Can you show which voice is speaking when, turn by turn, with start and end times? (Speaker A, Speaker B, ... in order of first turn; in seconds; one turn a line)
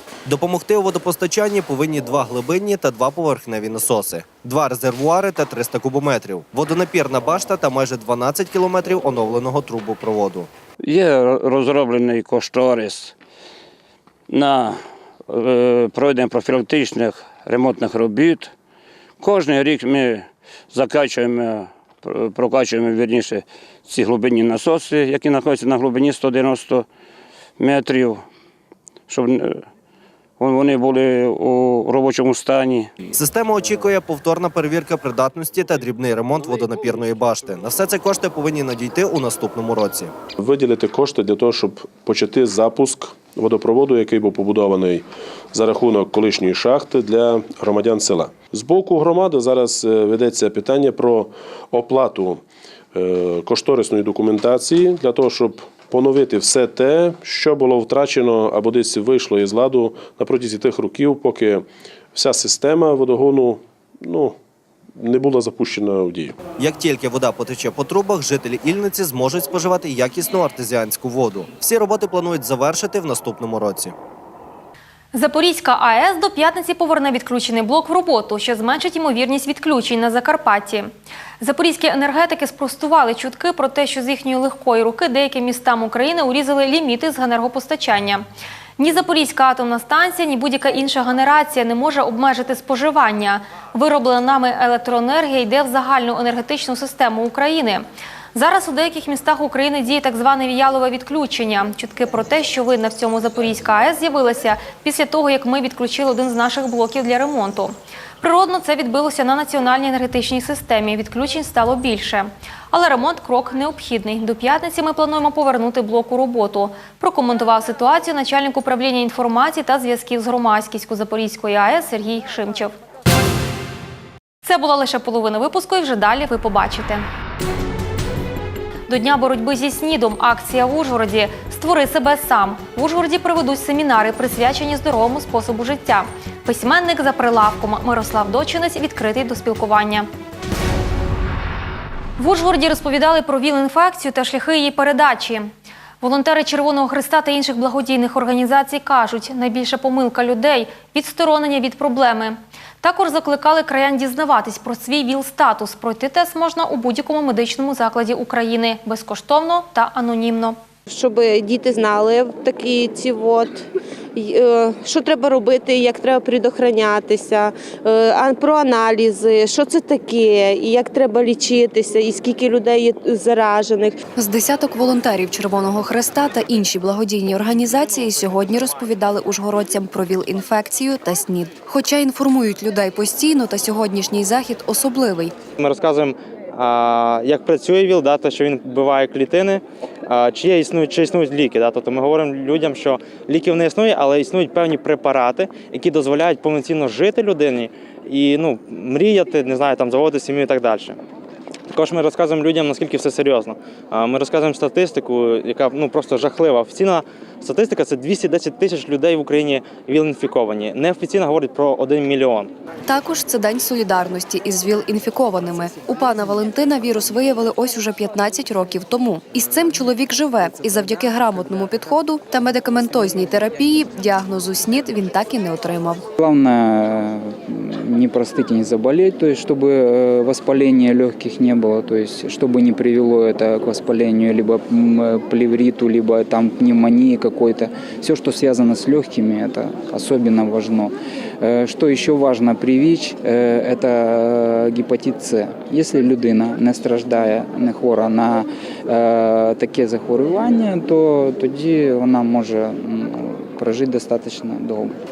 Speaker A: 0.3-10.5
Speaker B: 10.8-13.1
Speaker B: 14.3-18.5
Speaker B: 19.2-26.9
Speaker B: 27.6-28.2
Speaker B: 29.1-29.6
Speaker B: 30.4-32.9
Speaker A: 33.1-40.1
Speaker C: 40.4-52.4
Speaker C: 52.9-64.4
Speaker C: 65.0-66.4
Speaker A: 66.6-74.0
Speaker D: 75.1-88.2
Speaker D: 88.8-122.8
Speaker D: 124.4-127.0
Speaker D: 128.9-140.1
Speaker D: 142.2-160.6
Speaker E: 160.9-163.6
Speaker E: 164.2-174.0
Speaker F: 174.2-185.3
Speaker G: 185.6-201.0
Speaker G: 201.7-212.5
Speaker F: 212.9-226.0
Speaker H: 226.2-255.0